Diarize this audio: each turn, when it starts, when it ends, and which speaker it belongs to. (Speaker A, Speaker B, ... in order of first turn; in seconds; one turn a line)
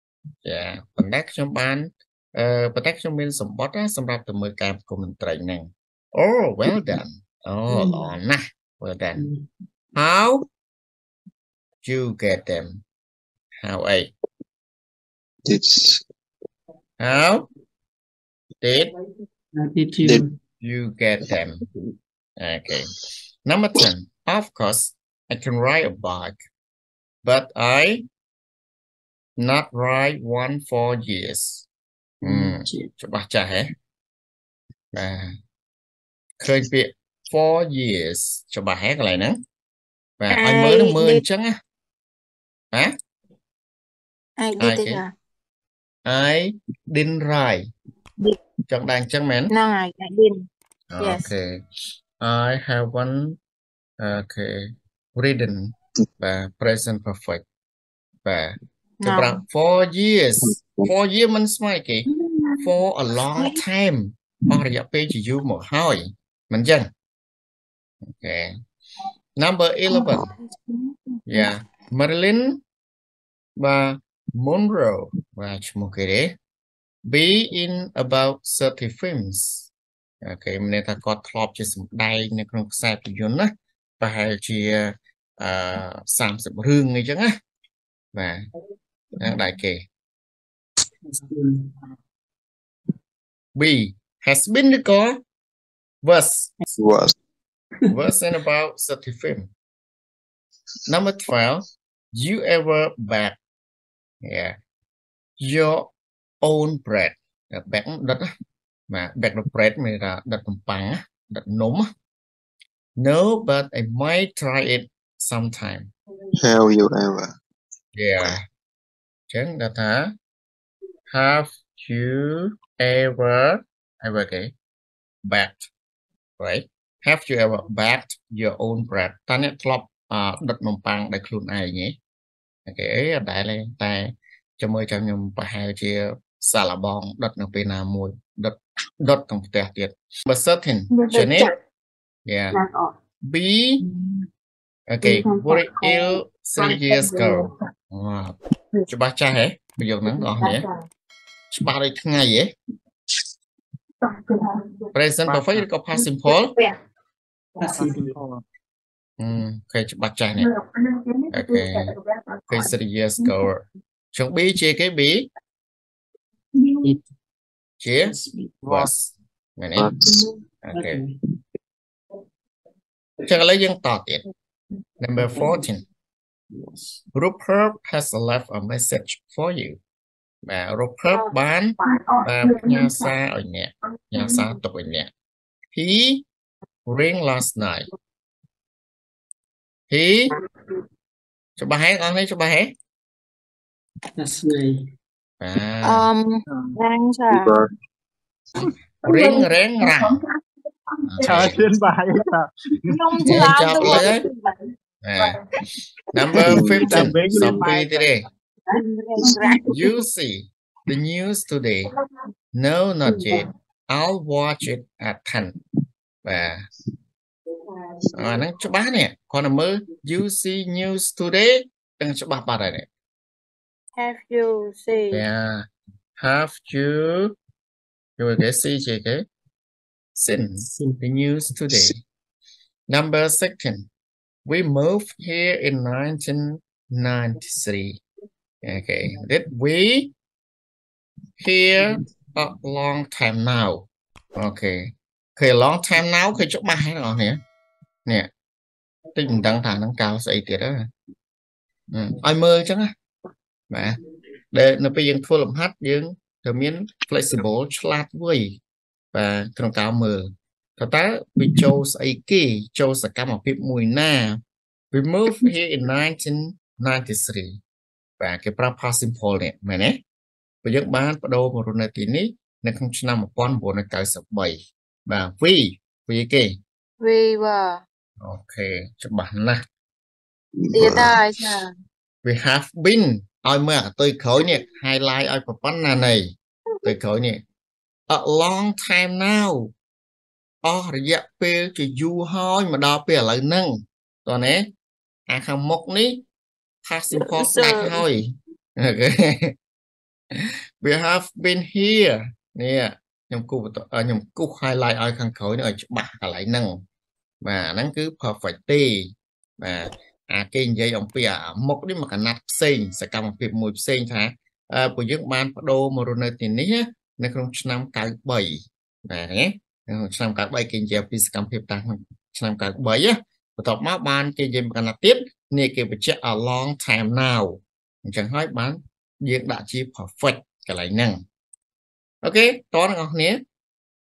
Speaker A: 0.4-9.3
Speaker B: 7.7-8.1
Speaker B: 9.2-9.5
Speaker A: 9.9-10.4
Speaker A: 11.8-12.8
Speaker A: 13.6-14.1
Speaker C: 15.5-16.0
Speaker A: 17.0-17.5
Speaker A: 18.6-18.9
Speaker B: 19.5-20.4
Speaker A: 20.6-21.6
Speaker A: 22.4-22.9
Speaker A: 23.5-26.4
Speaker A: 27.2-28.1
Speaker A: 29.4-31.7
Speaker A: 32.2-33.7
Speaker B: 32.2-32.9
Speaker A: 34.9-35.3
Speaker A: 36.4-39.4
Speaker A: 40.2-41.5
Speaker D: 40.3-41.2
Speaker D: 44.4-45.1
Speaker A: 44.6-45.0
Speaker A: 46.1-47.6
Speaker A: 48.7-49.5
Speaker D: 49.5-50.5
Speaker A: 50.9-51.5
Speaker D: 51.0-51.3
Speaker A: 52.2-53.4
Speaker A: 54.0-54.6
Speaker A: 55.1-57.4
Speaker A: 58.2-66.9
Speaker D: 59.0-59.4
Speaker C: 60.4-60.9
Speaker A: 68.1-68.5
Speaker A: 69.4-70.3
Speaker D: 70.2-71.5
Speaker A: 71.3-72.6
Speaker A: 73.6-76.3
Speaker A: 77.1-79.7
Speaker A: 80.2-87.3
Speaker A: 88.1-88.4
Speaker A: 89.2-89.8
Speaker B: 91.1-91.7
Speaker A: 93.5-95.2
Speaker A: 96.0-96.5
Speaker C: 96.7-97.1
Speaker A: 97.9-99.5
Speaker A: 100.9-103.4
Speaker A: 104.2-104.5
Speaker A: 105.4-105.9
Speaker A: 106.4-108.3
Speaker A: 108.9-111.9
Speaker A: 113.0-115.9
Speaker C: 116.4-117.3
Speaker A: 118.0-118.5
Speaker A: 119.3-120.1
Speaker A: 121.1-124.5
Speaker A: 125.2-125.7
Speaker A: 126.4-131.9
Speaker A: 132.7-141.5
Speaker D: 140.9-141.5
Speaker A: 142.3-142.6
Speaker D: 142.5-142.9
Speaker A: 143.3-143.8
Speaker A: 144.9-148.4
Speaker D: 145.0-146.0
Speaker D: 146.6-147.4
Speaker A: 148.9-150.7
Speaker D: 150.4-150.7
Speaker A: 151.5-152.5
Speaker A: 154.9-156.6
Speaker E: 155.3-155.7
Speaker B: 157.6-158.1
Speaker E: 157.7-158.4
Speaker A: 159.2-160.5
Speaker D: 160.8-161.7
Speaker A: 161.3-162.0
Speaker A: 162.5-165.3
Speaker A: 167.8-168.1
Speaker B: 168.0-168.5
Speaker E: 168.6-168.9
Speaker A: 168.7-169.9
Speaker C: 169.8-170.3
Speaker B: 170.2-171.1
Speaker A: 170.6-171.0
Speaker A: 173.3-174.2
Speaker A: 175.0-175.8
Speaker B: 175.2-175.6
Speaker A: 177.2-179.8
Speaker A: 180.4-185.1
Speaker A: 185.7-186.2
Speaker A: 186.9-187.9
Speaker A: 189.9-190.3
Speaker A: 191.6-192.7
Speaker B: 194.2-194.8
Speaker A: 195.4-196.1
Speaker D: 195.8-197.6
Speaker C: 197.3-197.7
Speaker A: 199.0-200.2
Speaker A: 201.1-201.6
Speaker E: 201.2-203.4
Speaker D: 202.9-204.6
Speaker A: 203.2-204.2
Speaker A: 205.0-205.4
Speaker A: 206.1-208.2
Speaker C: 206.4-206.9
Speaker E: 206.8-208.1
Speaker D: 208.7-209.7
Speaker A: 209.7-211.9
Speaker A: 212.6-215.5
Speaker A: 216.2-216.6
Speaker A: 218.1-222.9
Speaker D: 224.0-225.2
Speaker A: 225.1-225.7
Speaker A: 226.2-227.3
Speaker A: 228.2-229.2
Speaker A: 230.2-232.0
Speaker B: 230.6-231.0
Speaker A: 232.9-233.9
Speaker A: 234.5-238.0
Speaker A: 238.6-240.1
Speaker A: 241.4-244.8
Speaker A: 245.4-247.4
Speaker A: 249.2-250.8
Speaker A: 251.9-252.9
Speaker A: 253.7-254.0
Speaker A: 254.5-258.6
Speaker A: 259.1-264.4
Speaker A: 264.9-267.6
Speaker A: 268.2-270.0
Speaker A: 270.6-276.6
Speaker D: 277.0-277.8
Speaker A: 278.2-279.6
Speaker C: 280.6-281.3
Speaker D: 280.7-281.7
Speaker A: 282.2-287.4
Speaker A: 288.1-289.7
Speaker A: 290.6-294.6
Speaker A: 295.3-296.2
Speaker A: 296.8-299.5
Speaker D: 297.2-298.0
Speaker A: 300.3-306.8
Speaker A: 307.4-331.2
Speaker A: 332.2-333.4